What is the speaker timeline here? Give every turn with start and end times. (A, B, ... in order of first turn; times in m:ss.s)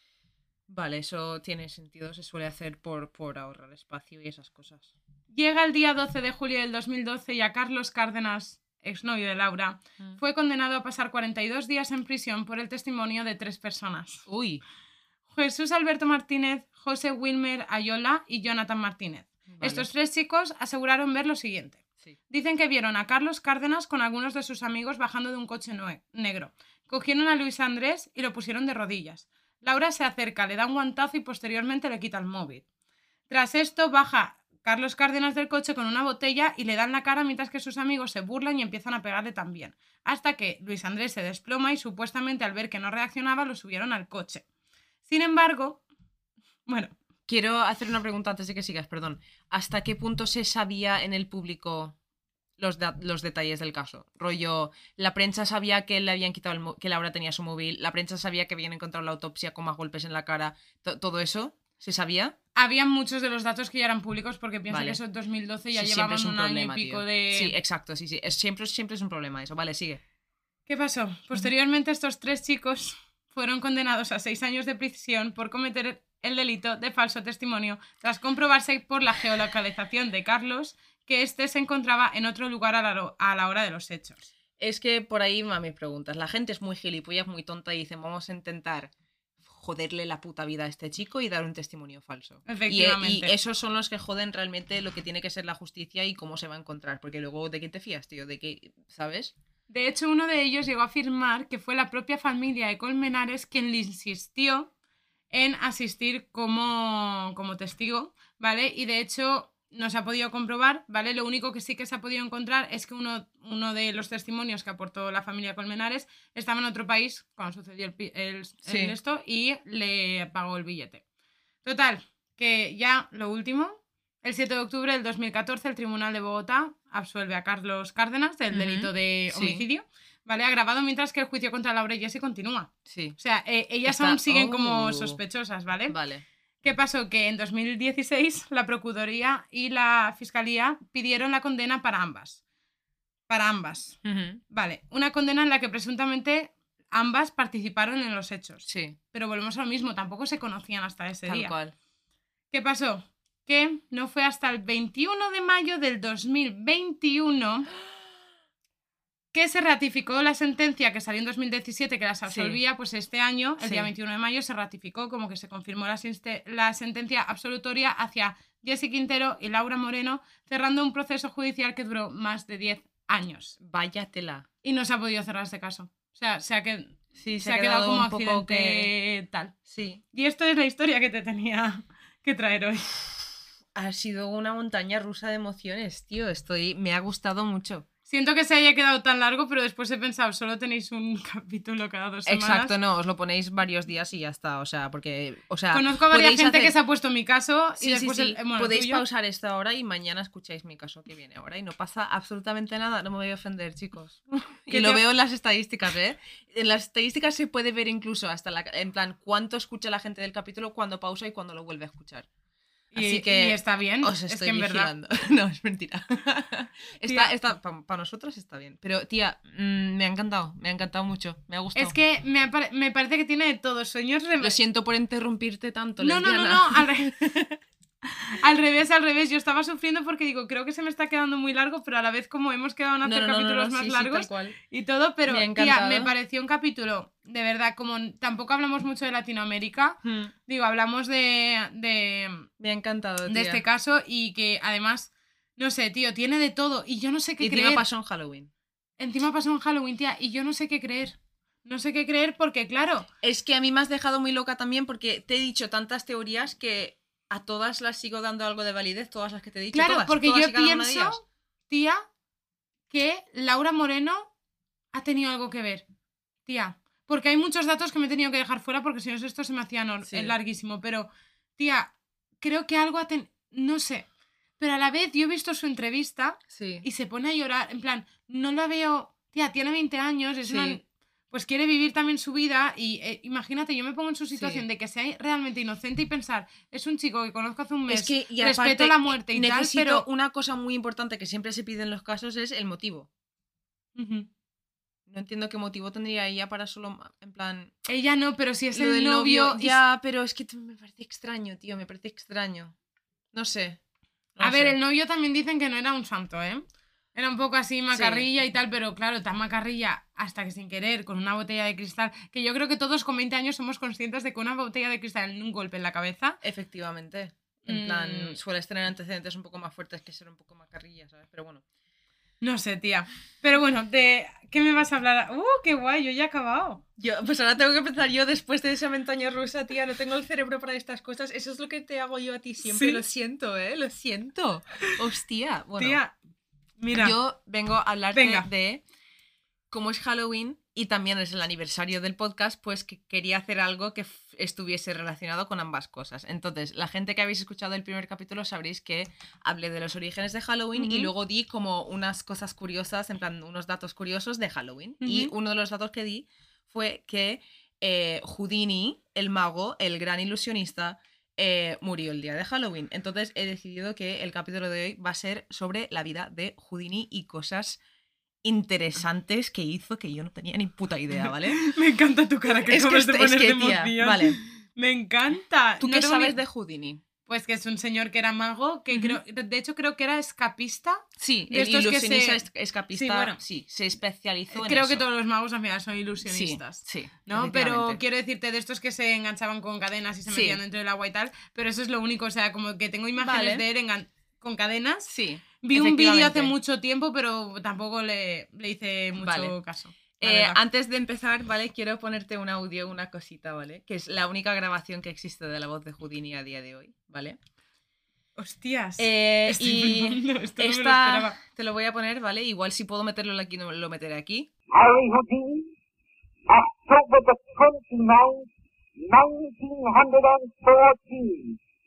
0:00.7-0:04.9 A
0:05.3-0:14.2 B
0:14.3-0:14.6 A
0:15.3-0:32.6 B
0:19.5-0:19.9 A
0:33.3-0:44.4 B
0:45.0-0:45.8 B
0:46.7-0:46.9 B
0:47.3-0:52.0 A
0:52.6-1:02.4 A
1:02.6-1:07.6 B
1:04.7-1:05.0 A
1:05.7-1:10.0 A
1:10.7-1:24.2 B
1:24.6-1:28.9 A
1:29.4-1:39.3 A
1:32.5-1:33.3 B
1:39.7-1:44.7 B
1:45.3-2:01.0 B
1:58.6-1:58.9 A
2:01.6-2:15.9 B
2:08.5-2:09.6 A
2:12.8-2:13.2 A
2:13.8-2:15.2 A
2:15.9-2:16.2 A
2:16.6-2:22.4 B
2:23.3-2:24.0 B
2:24.0-2:24.4 A
2:24.5-2:31.5 B
2:28.6-2:29.0 A
2:31.2-2:31.7 A
2:32.5-2:37.7 B
2:39.3-2:53.6 B
2:42.2-2:42.6 A
2:43.6-2:43.9 A
2:53.6-2:54.4 A
2:54.6-2:59.6 B
2:57.2-2:58.9 A
2:59.7-3:00.0 A
3:00.1-3:03.0 B
3:03.7-3:07.8 A
3:08.1-3:12.7 B
3:12.2-3:16.7 A
3:15.7-3:19.0 B
3:17.8-3:32.3 A
3:24.7-3:25.0 B
3:32.9-3:34.9 B
3:32.9-3:42.0 A
3:37.0-3:37.3 B
3:41.7-3:44.6 B
3:44.4-3:47.6 A
3:46.0-3:47.1 B
3:48.3-4:02.5 B
3:53.0-3:54.6 A
3:55.2-3:56.1 A
4:00.0-4:00.3 A
4:02.6-4:03.6 A
4:03.3-4:07.8 B
4:07.4-4:08.5 A
4:09.0-4:13.1 B
4:13.2-4:21.2 A
4:19.7-4:22.0 B
4:22.9-4:24.3 B
4:24.9-4:25.8 B
4:26.4-4:34.0 B
4:30.0-4:30.3 A
4:34.6-4:50.0 B
4:36.5-4:36.8 A
4:40.5-4:40.8 A
4:44.4-4:44.6 A
4:47.9-4:53.1 A
4:54.0-4:54.3 B
4:55.1-4:57.7 A
4:57.8-4:59.8 B
4:58.7-5:02.7 A
5:03.3-5:03.8 A
5:04.4-5:04.8 A
5:04.4-5:16.4 B
5:07.9-5:08.2 A
5:16.4-5:21.6 A
5:17.6-5:18.4 B
5:22.4-5:26.8 B
5:27.0-5:36.0 A
5:32.6-5:33.0 B
5:35.8-5:36.1 B
5:36.8-5:37.2 B
5:36.9-5:38.8 A
5:38.1-5:38.5 B
5:39.7-6:07.8 A
5:50.7-5:51.1 B
5:55.0-5:55.3 B
6:08.4-6:11.6 A
6:11.5-6:16.4 B
6:12.6-6:14.4 A
6:15.8-6:17.0 A
6:17.3-6:22.4 B
6:18.9-6:19.2 A
6:21.2-6:25.0 A
6:22.9-6:23.4 B
6:24.5-6:35.1 B
6:26.2-6:28.0 A
6:30.3-6:30.6 A
6:33.2-6:33.6 A
6:35.1-6:36.5 A
6:35.6-6:40.6 B
6:39.2-6:39.5 A
6:40.2-6:47.4 A
6:48.4-6:51.4 B
6:49.0-6:54.5 A
6:54.7-6:55.7 C
6:56.5-7:01.6 C